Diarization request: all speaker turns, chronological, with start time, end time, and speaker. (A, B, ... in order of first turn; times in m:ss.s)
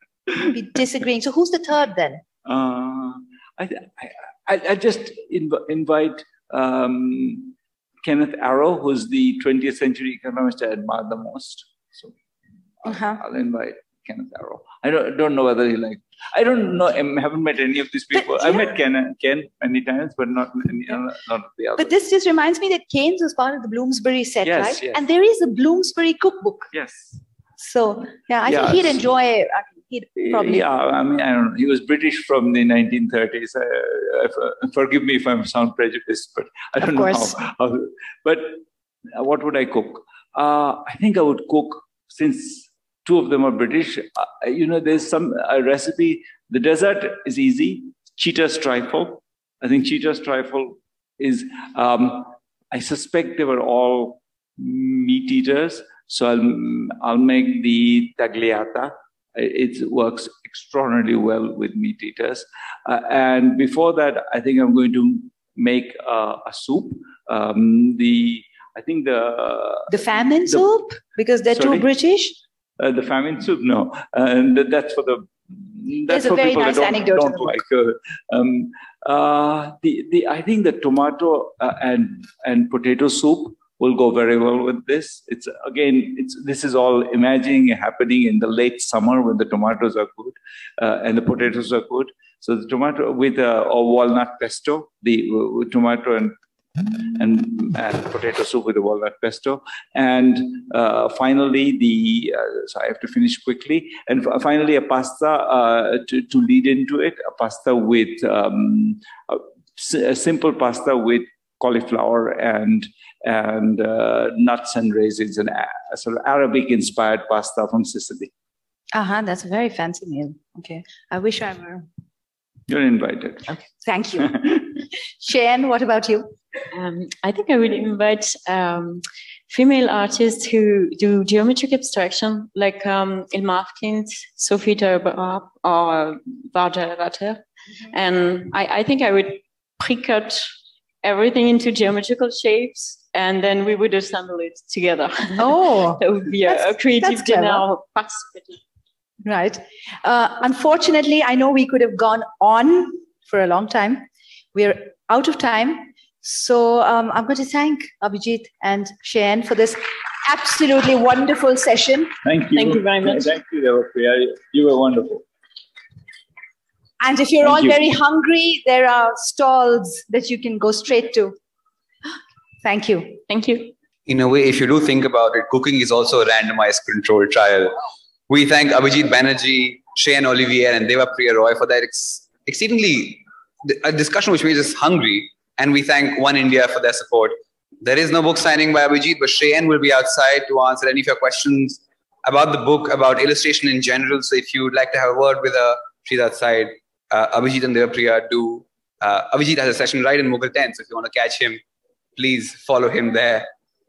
0:00.3-0:02.2 A
0:02.4-0:12.1 B
0:12.8-0:21.9 B
0:12.8-0:13.2 A
0:18.1-0:18.7 A
0:21.8-0:26.7 A
0:24.4-0:25.0 B
0:26.7-0:27.2 B
0:27.6-0:30.6 A
0:28.4-0:29.0 B
0:30.2-0:38.6 B
0:36.8-0:37.3 A
0:39.1-1:10.7 B
1:09.9-1:12.4 A
1:11.5-1:11.9 B
1:12.8-1:36.4 B
1:16.1-1:17.6 A
1:37.1-1:58.3 B
1:58.9-2:01.8 A
2:02.7-2:03.6 B
2:03.5-2:04.3 A
2:04.2-2:04.8 B
2:05.2-2:06.3 A
2:06.7-2:20.5 C
2:21.0-2:28.6 C
2:25.3-2:27.6 A
2:29.2-2:42.1 A
2:42.2-2:45.2 B
2:42.5-2:43.3 C
2:47.0-2:51.4 A
2:47.4-2:47.8 B
2:52.6-2:53.2 A
2:53.3-2:53.7 C
2:54.1-2:57.8 D
2:58.3-3:21.6 D
3:22.2-3:23.5 D